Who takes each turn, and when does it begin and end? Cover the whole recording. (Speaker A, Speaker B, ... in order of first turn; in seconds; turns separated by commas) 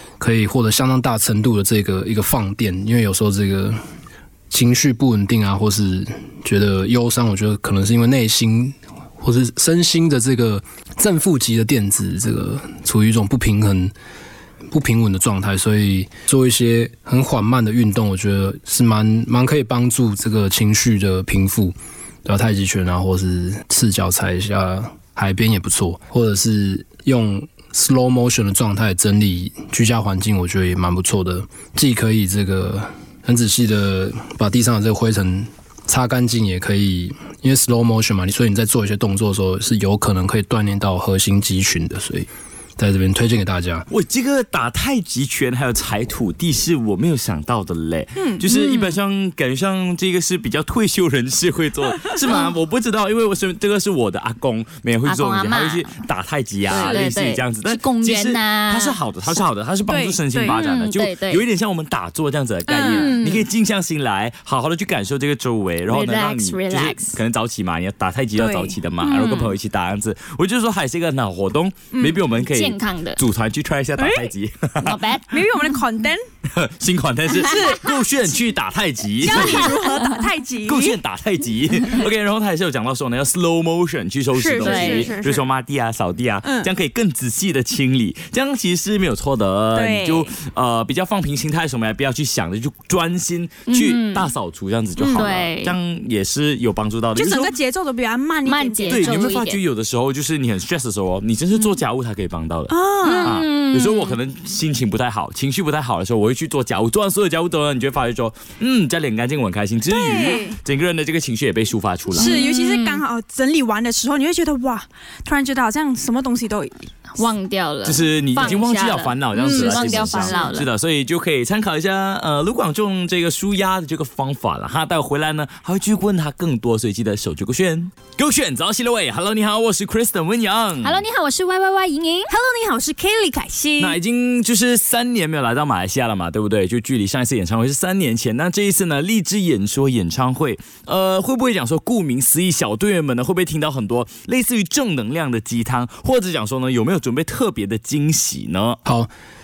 Speaker A: 0.2-3.8, Speaker A: 4.5-13.9, Speaker A: 14.7-43.9, Speaker B: 43.9-75.0, Speaker C: 48.2-48.4, Speaker D: 48.5-49.0, Speaker D: 55.0-56.0, Speaker D: 56.7-59.0, Speaker C: 59.9-60.6, Speaker D: 60.5-61.4, Speaker C: 62.7-63.5, Speaker D: 62.8-63.1, Speaker D: 65.9-67.2, Speaker C: 68.4-68.8, Speaker D: 69.0-69.5, Speaker D: 72.4-73.2, Speaker C: 74.0-74.3, Speaker D: 74.8-75.3, Speaker C: 75.3-76.2, Speaker B: 76.5-79.7, Speaker C: 77.3-78.0, Speaker C: 79.2-81.0, Speaker D: 79.3-79.7, Speaker B: 80.6-97.5, Speaker C: 84.3-85.4, Speaker D: 84.6-85.2, Speaker C: 86.4-86.7, Speaker C: 89.7-90.3, Speaker D: 93.7-94.3, Speaker C: 95.0-95.2, Speaker D: 95.1-95.8, Speaker C: 97.2-99.4, Speaker D: 98.5-99.6, Speaker B: 98.9-112.4, Speaker C: 102.7-103.4, Speaker D: 103.0-104.2, Speaker C: 109.9-110.6, Speaker D: 112.1-113.0, Speaker C: 112.1-116.8, Speaker D: 117.2-120.7, Speaker B: 117.8-131.0, Speaker C: 119.4-120.5, Speaker D: 130.8-132.3, Speaker C: 132.3-134.0, Speaker B: 133.8-148.8, Speaker A: 148.8-149.1